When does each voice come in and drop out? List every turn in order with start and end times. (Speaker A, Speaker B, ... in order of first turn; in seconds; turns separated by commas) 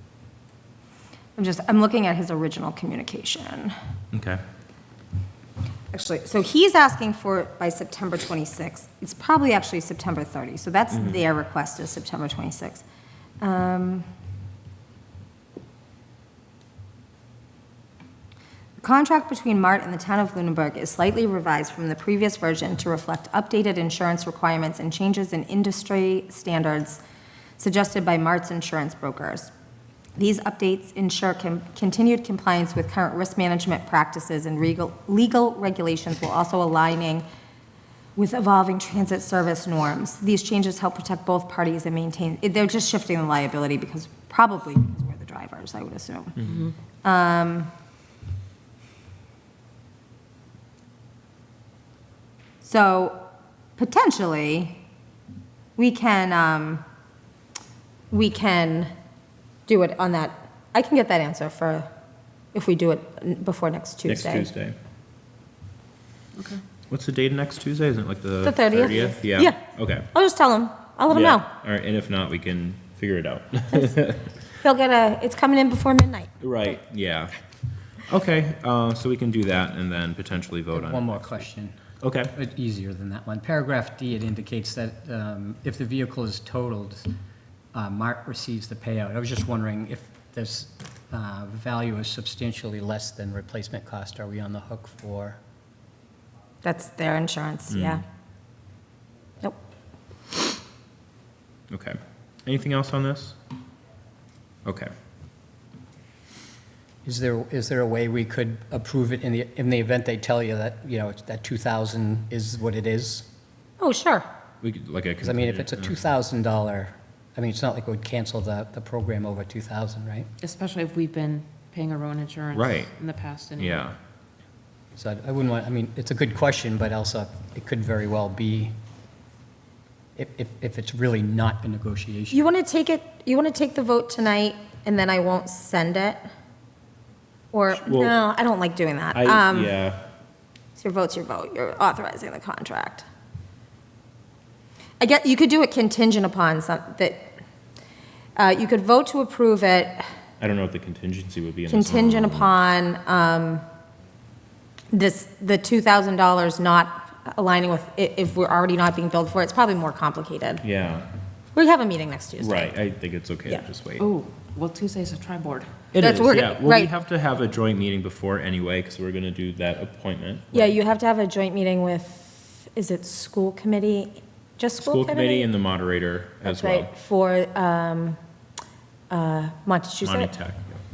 Speaker A: 1.4-3.7, Speaker B: 4.1-4.4, Speaker A: 5.9-12.8, Speaker B: 10.9-11.2, Speaker A: 13.4-14.1, Speaker A: 18.8-27.0, Speaker A: 27.6-29.5, Speaker A: 30.2-37.2, Speaker A: 38.1-46.4, Speaker C: 46.5-46.7, Speaker A: 47.0-47.7, Speaker A: 52.6-53.2, Speaker A: 53.8-54.8, Speaker A: 55.8-56.8, Speaker A: 58.1-58.9, Speaker A: 59.7-61.9, Speaker A: 62.5-64.5, Speaker B: 64.1-64.7, Speaker C: 66.4-66.6, Speaker B: 66.9-70.1, Speaker A: 68.4-69.6, Speaker A: 70.1-71.5, Speaker B: 71.1-74.2, Speaker A: 74.6-76.3, Speaker B: 76.4-77.3, Speaker B: 78.1-81.5, Speaker D: 80.7-81.8, Speaker B: 82.0-82.3, Speaker D: 82.3-87.1, Speaker D: 87.7-95.4, Speaker A: 96.6-98.0, Speaker B: 97.7-98.0, Speaker B: 101.7-103.3, Speaker B: 104.6-104.9, Speaker D: 107.0-113.2, Speaker A: 113.8-114.2, Speaker B: 114.6-115.9, Speaker D: 115.2-120.3, Speaker C: 120.4-123.9, Speaker B: 122.5-122.9, Speaker B: 123.6-123.9, Speaker D: 125.0-128.7, Speaker D: 130.2-132.5, Speaker A: 132.3-136.2, Speaker A: 137.5-139.8, Speaker B: 137.8-138.2, Speaker B: 139.1-140.0, Speaker A: 140.8-143.0, Speaker A: 145.0-147.3, Speaker A: 148.3-150.1, Speaker B: 150.4-152.5, Speaker A: 151.7-153.6, Speaker A: 154.9-160.6, Speaker B: 160.6-161.1, Speaker A: 161.5-162.7, Speaker B: 162.4-164.0, Speaker C: 164.0-165.8, Speaker B: 165.9-170.8, Speaker A: 166.0-166.9, Speaker A: 170.5-175.5, Speaker B: 174.8-176.9, Speaker A: 176.4-178.2, Speaker A: 179.1-180.3, Speaker B: 180.0-180.8